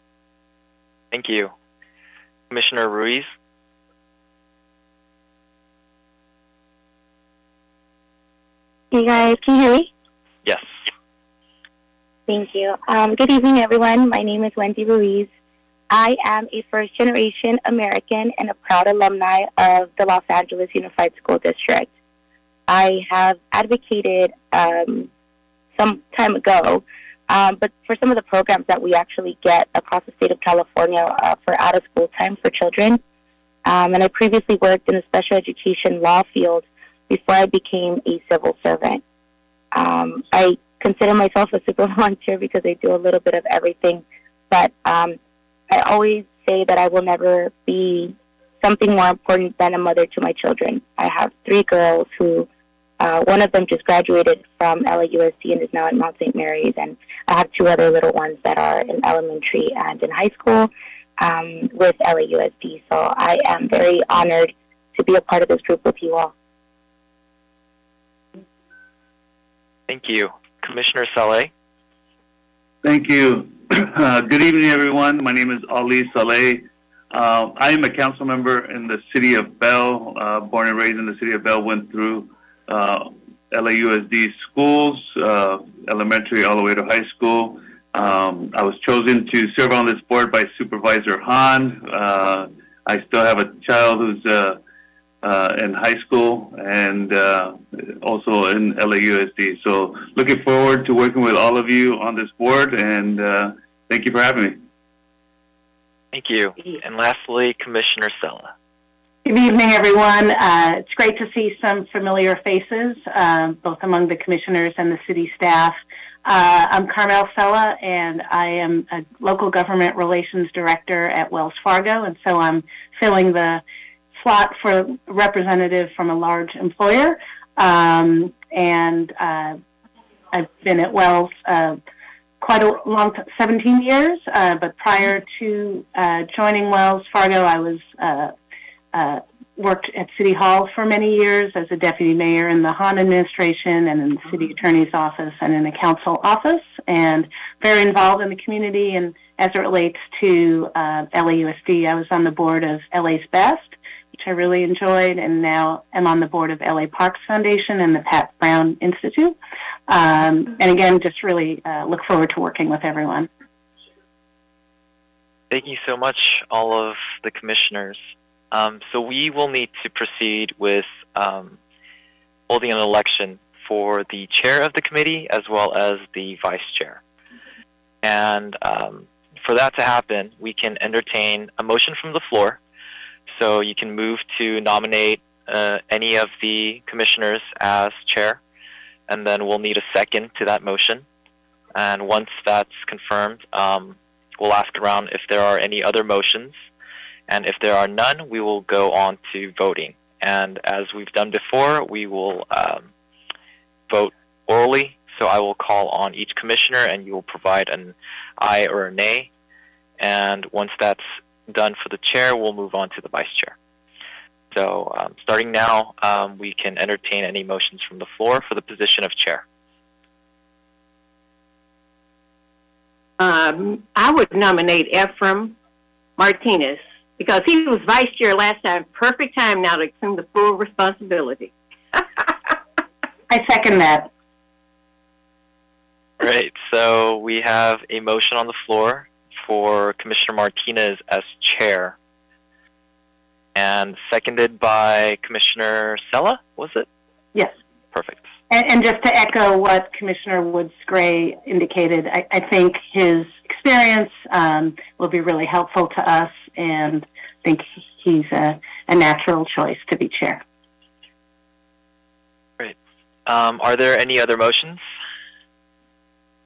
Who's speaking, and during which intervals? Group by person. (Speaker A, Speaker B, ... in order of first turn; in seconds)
Speaker A: 1.1-1.5, 2.5-3.3, 69.9-71.5, 106.1-108.5, 165.5-168.0, 168.5-171.6, 172.5-177.0, 178.0-182.6, 183.3-188.4, 189.1-191.0, 191.7-196.5, 197.3-202.9, 203.9-209.3, 210.0-213.6, 214.5-219.4, 236.2-241.9, 243.5-246.9, 247.9-248.2, 262.6-264.8
Speaker B: 8.9-9.9, 12.3-15.3, 15.9-21.9, 22.7-25.1, 25.8-33.0, 33.6-39.0, 39.7-45.2, 45.7-52.5, 53.0-66.3
Speaker C: 72.8-94.6, 95.2-104.6
Speaker D: 109.2-123.6, 124.2-129.6, 130.3-131.8, 132.4-138.3, 138.9-159.4, 159.9-163.3, 233.3-234.1, 248.5-260.4
Speaker E: 223.2-225.6, 226.2-231.5